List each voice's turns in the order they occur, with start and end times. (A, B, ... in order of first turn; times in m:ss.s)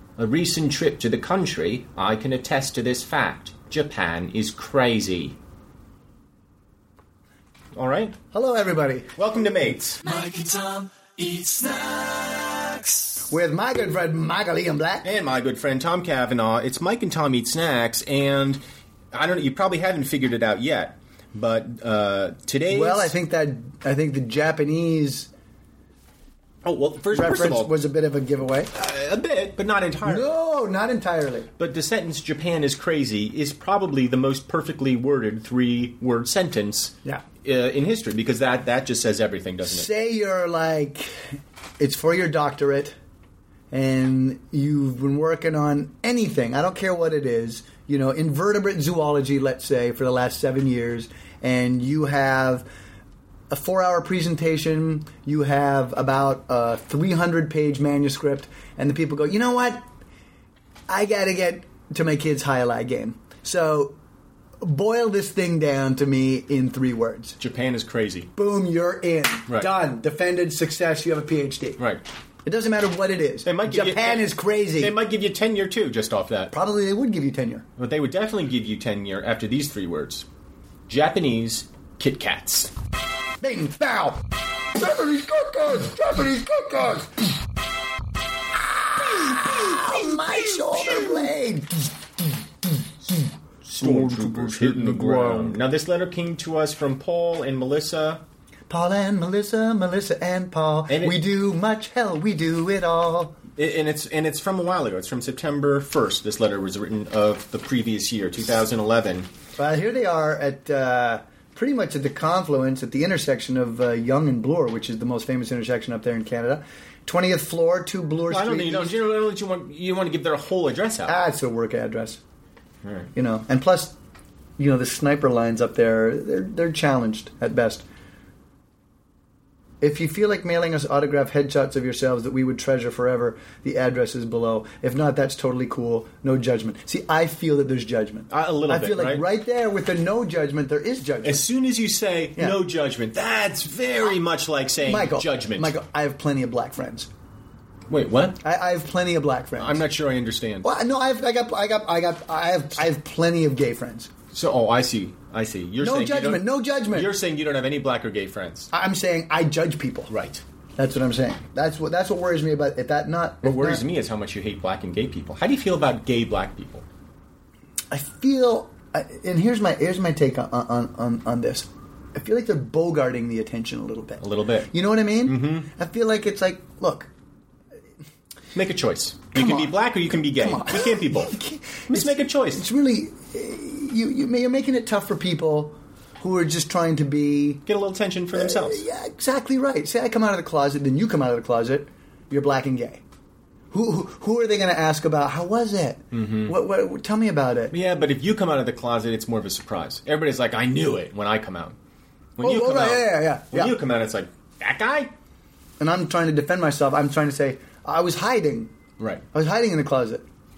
0:00.2-0:05.4 A
0:07.7-0:08.2 A
0:08.3-0:09.1 B
0:09.2-0:10.0 A
0:10.0-0:13.2 C
0:13.3-0:15.1 B
0:15.0-0:18.6 A
0:19.1-0:23.1 A
0:22.7-0:25.3 B
0:26.6-0:27.7 A
0:27.1-0:28.7 B
0:28.7-0:30.3 A
0:30.0-0:31.5 B
0:31.6-0:39.9 A
0:39.6-0:42.9 B
0:43.7-0:52.6 B
0:53.5-0:59.8 B
1:00.9-1:04.0 B
1:04.6-1:07.4 B
1:07.4-1:08.3 A
1:08.4-1:11.8 B
1:11.8-1:12.0 A
1:12.4-1:14.9 B
1:13.4-1:16.5 A
1:16.5-1:17.6 B
1:17.8-1:20.2 A
1:20.9-1:22.7 A
1:23.4-1:24.2 B
1:24.7-1:27.2 B
1:28.8-1:35.6 B
1:33.6-1:38.2 A
1:38.7-1:43.4 B
1:40.9-1:41.2 A
1:43.6-1:49.3 A
1:49.6-1:59.0 B
1:58.3-2:01.2 A
2:01.0-2:02.2 B
2:02.8-2:03.1 A
2:03.1-2:03.9 B
2:04.6-2:07.8 B
2:09.8-2:21.4 B
2:18.3-2:19.2 A
2:21.2-2:25.7 A
2:24.8-2:27.1 B
2:27.9-2:28.4 A
2:28.4-2:29.8 B
2:29.6-2:30.7 A
2:30.6-2:34.1 B
2:34.3-2:38.7 A
2:35.8-2:37.1 B
2:38.7-2:40.1 B
2:40.1-2:40.4 A
2:40.8-2:43.8 B
2:43.4-2:46.8 A
2:47.9-2:57.1 B
2:54.2-2:54.7 A
2:55.2-2:55.7 A
2:58.5-3:01.4 A
2:59.3-3:07.6 B
3:01.9-3:02.6 A
3:07.6-3:08.8 A
3:08.3-3:13.0 B
3:13.7-3:17.7 B
3:16.1-3:16.6 A
3:17.7-3:21.8 A
3:22.4-3:25.1 A
3:22.4-3:23.7 B
3:25.8-3:28.7 B
3:29.0-3:29.2 A
3:29.3-3:30.2 B